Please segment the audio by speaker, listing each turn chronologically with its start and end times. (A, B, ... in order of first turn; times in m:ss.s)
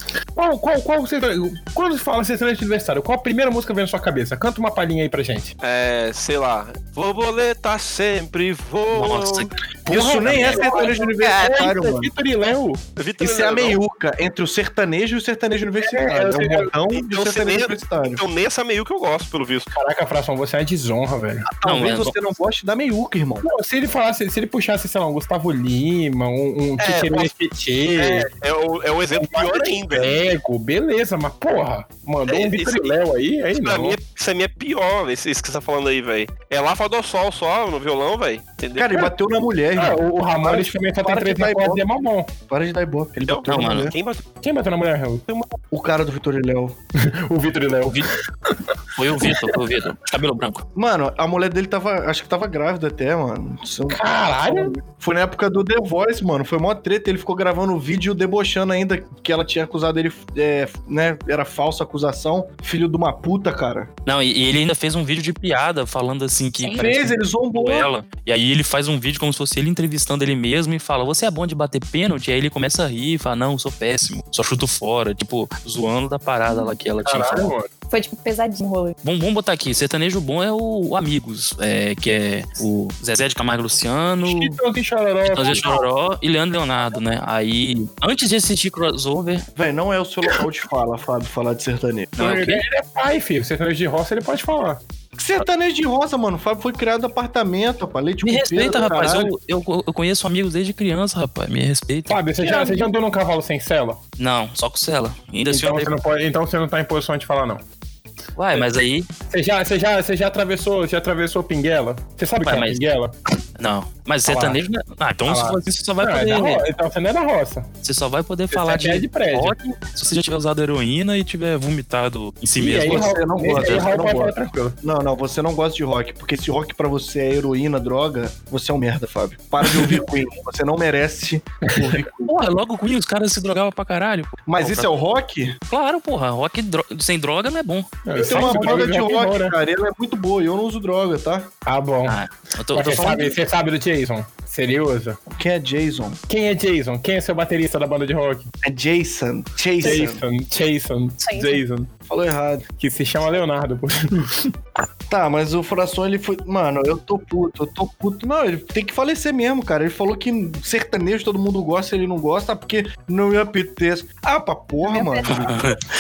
0:00.4-0:05.5 A
0:05.6-0:09.5 B
0:08.9-0:10.6 C
0:09.9-0:12.1 D
0:09.9-0:12.8 A
0:10.5-0:11.7 E
0:13.0-0:13.8 B
0:13.2-0:18.2 D
0:15.8-0:16.7 A
0:16.9-0:19.7 B
0:19.7-0:21.4 A
0:21.5-0:23.5 D
0:21.6-0:22.1 C
0:23.4-0:28.3 A
0:26.8-0:27.3 B
0:28.0-0:30.1 B
0:29.2-0:34.0 A
0:32.3-0:32.9 B
0:33.6-0:39.0 B
0:38.8-0:41.8 D
0:39.8-0:42.3 A
0:42.5-0:44.0 D
0:43.2-0:44.2 B
0:43.5-0:43.9 C
0:44.4-0:45.2 A
0:45.3-0:45.5 B
0:45.7-0:46.8 D
0:47.0-0:49.6 A
0:49.0-0:50.6 C
0:50.8-1:03.9 D
0:53.9-0:54.8 A
1:04.1-1:17.5 C
1:06.6-1:07.9 D
1:17.0-1:17.7 A
1:17.9-1:19.0 E
1:19.0-1:24.6 C
1:24.2-1:25.9 A
1:25.2-1:29.4 C
1:29.6-1:32.1 D
1:32.2-1:32.6 C
1:32.2-1:34.8 A
1:35.2-1:39.3 D
1:38.2-1:42.2 C
1:38.7-1:39.0 A
1:42.1-1:44.0 A
1:44.2-1:45.9 C
1:45.5-1:47.6 A
1:48.4-1:49.1 C
1:49.3-1:53.2 A
1:52.4-1:52.8 C
1:53.6-1:56.6 C
1:54.2-1:54.6 A
1:55.3-1:57.7 A
1:57.8-2:03.8 C
1:58.5-1:59.6 A
2:02.6-2:04.8 A
2:02.8-2:12.3 D
2:09.7-2:09.9 A
2:11.7-2:12.0 A
2:12.2-2:14.9 C
2:14.5-2:15.6 D
2:15.7-2:18.6 C
2:18.0-2:19.6 A
2:18.2-2:21.5 D
2:21.6-2:22.2 A
2:22.1-2:23.4 C
2:22.7-2:25.2 A
2:25.3-2:26.2 D
2:26.3-2:28.5 A
2:28.6-2:30.2 D
2:29.8-2:31.9 A
2:31.2-2:31.6 E
2:32.1-2:32.6 D
2:32.8-2:34.5 A
2:35.1-2:45.7 D
2:44.8-2:45.6 E
2:45.3-2:45.8 C